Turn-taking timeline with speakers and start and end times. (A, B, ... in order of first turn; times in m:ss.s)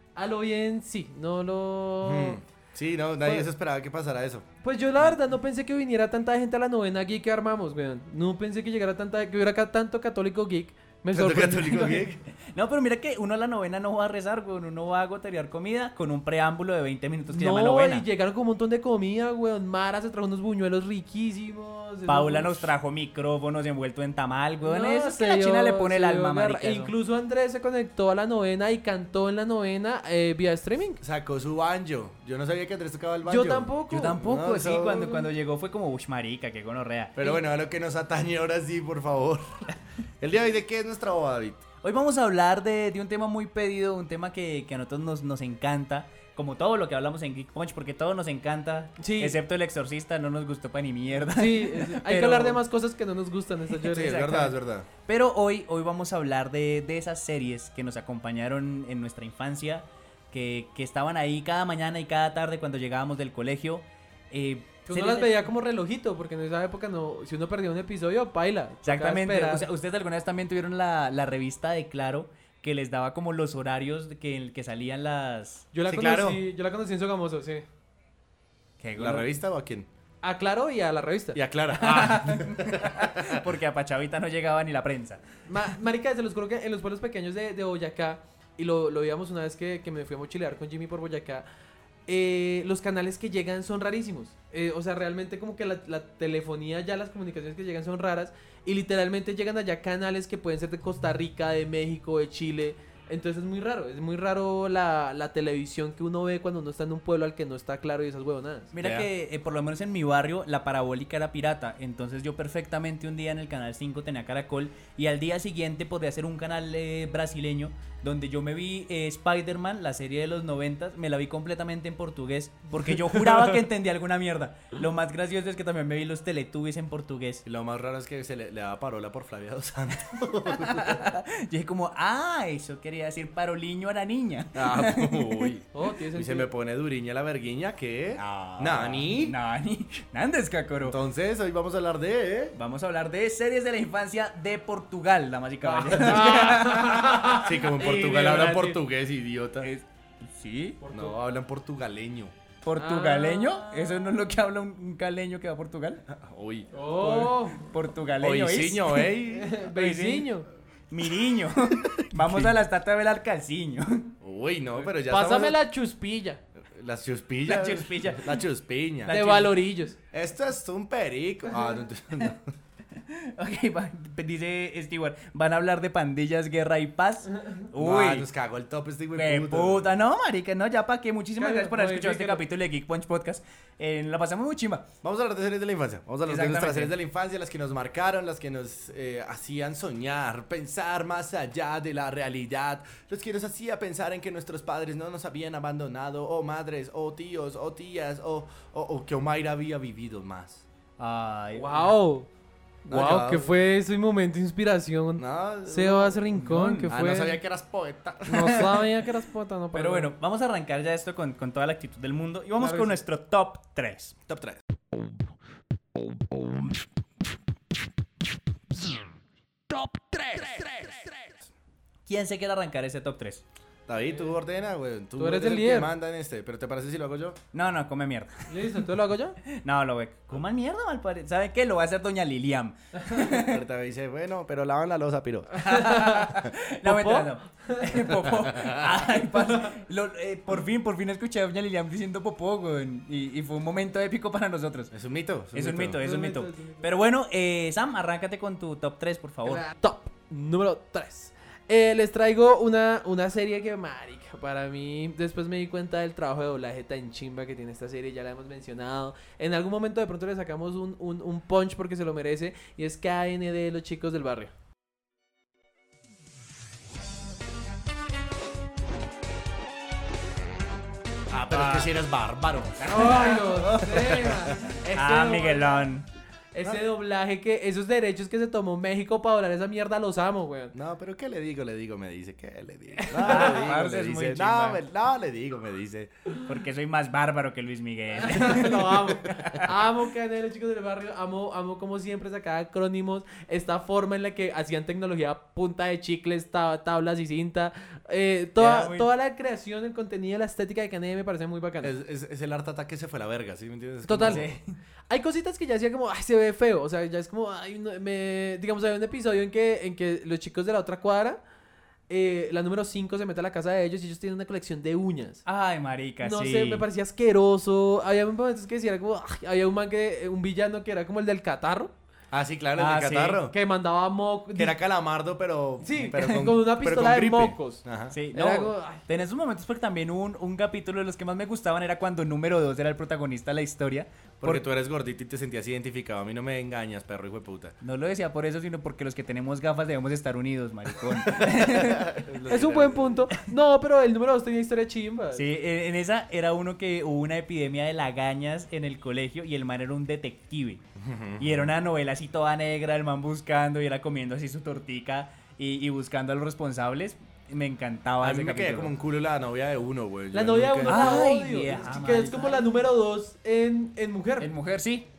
0:00.2-0:02.4 A
0:02.0-0:04.5 B
0:03.2-0:03.5 A
0:04.6-0:11.9 A
0:11.1-0:12.2 B
0:11.7-0:18.0 C
0:17.3-0:22.7 A
0:22.1-0:26.9 C
0:24.6-0:31.0 A
0:31.0-0:33.7 B
0:33.2-0:34.2 A
0:33.9-0:37.2 C
0:34.2-0:35.1 B
0:37.2-0:39.5 B
0:40.2-0:41.6 B
0:41.8-0:52.6 C
0:49.0-0:49.4 A
0:51.3-0:54.4 A
0:53.9-0:54.9 B
0:54.0-1:05.4 C
1:04.9-1:09.6 A
1:08.8-1:15.6 C
1:15.7-1:17.6 A
1:15.9-1:16.4 B
1:18.8-1:19.3 C
1:19.0-1:19.9 B
1:20.2-1:21.4 A
1:21.3-1:23.4 B
1:21.8-1:25.2 C
1:25.5-1:31.4 A
1:32.1-1:48.7 A
1:48.7-2:07.4 C
1:48.8-1:49.1 B
2:03.1-2:03.6 A
2:07.4-2:11.1 B
2:10.6-2:15.5 C
2:14.5-2:19.3 B
2:15.7-2:16.5 A
2:18.2-2:21.0 C
2:20.8-2:22.5 B
2:22.5-2:27.4 C
2:25.7-2:28.8 A
2:27.3-2:29.7 B
2:29.6-2:30.8 C
2:30.8-2:31.2 A
2:30.9-2:32.3 B
2:32.6-2:36.0 C
2:32.8-2:34.2 A
2:36.1-2:36.7 B
2:36.7-2:37.6 A
2:37.0-2:39.1 C
2:38.2-2:39.5 B
2:39.3-2:40.4 A
2:39.7-2:40.3 C
2:40.9-2:44.1 C
2:42.1-2:42.5 B
2:44.2-2:45.6 B
2:44.8-2:46.4 A
2:46.7-2:49.4 B
2:47.4-2:48.4 C
2:49.0-2:50.0 A
2:49.1-2:49.5 C
2:50.1-2:52.5 B
2:53.0-2:58.2 C
2:57.8-2:59.9 B
2:59.1-3:04.9 C
3:01.4-3:02.4 A
3:05.0-3:20.6 B
3:06.2-3:06.9 C
3:21.0-3:21.9 C
3:21.5-3:22.3 A
3:22.8-3:27.4 A
3:22.9-3:23.5 B
3:25.2-3:26.2 B
3:26.3-3:26.9 C
3:26.9-3:28.8 B
3:28.3-3:30.1 A
3:29.7-3:34.1 C
3:32.6-3:33.0 A
3:34.3-3:34.6 B
3:42.0-3:43.4 C
3:43.9-3:47.4 B
3:44.0-3:44.3 A
3:45.2-3:45.9 A
3:47.5-3:48.5 C
3:48.5-3:49.4 A
3:49.5-3:53.5 C
3:53.2-3:55.7 B
3:55.6-4:04.9 C
3:55.7-3:56.3 A
3:56.8-3:57.8 A
3:58.6-3:58.8 B
4:04.9-4:06.0 B
4:05.5-4:09.6 C
4:06.0-4:06.8 A
4:09.4-4:24.5 A
4:31.3-4:32.9 B
4:31.5-4:31.9 C
4:32.8-4:36.1 C
4:32.9-4:35.9 A
4:36.5-4:40.7 A
4:40.7-4:46.1 B
4:43.0-4:43.7 A
4:43.2-4:44.8 C
4:46.4-4:49.6 C
4:48.2-5:01.9 A
4:58.6-4:59.1 C
5:01.8-5:04.5 B
5:04.0-5:04.4 A
5:04.2-5:04.8 C
5:05.1-5:11.4 A
5:12.1-5:15.4 A
5:15.4-5:16.8 C
5:16.2-5:21.9 A
5:22.3-5:23.5 B
5:22.8-5:23.4 C
5:23.5-5:24.8 A
5:24.5-5:28.1 B
5:25.8-5:29.0 A
5:25.9-5:26.5 C
5:28.1-5:34.6 C
5:34.4-5:37.7 B
5:37.8-5:42.5 C
5:41.4-5:43.2 B
5:42.5-5:45.4 A
5:45.3-5:50.8 C
5:51.0-5:51.7 B
5:51.4-5:58.9 C
5:58.2-6:01.3 B
6:00.3-6:04.5 A
6:00.9-6:02.7 C
6:04.4-6:05.1 C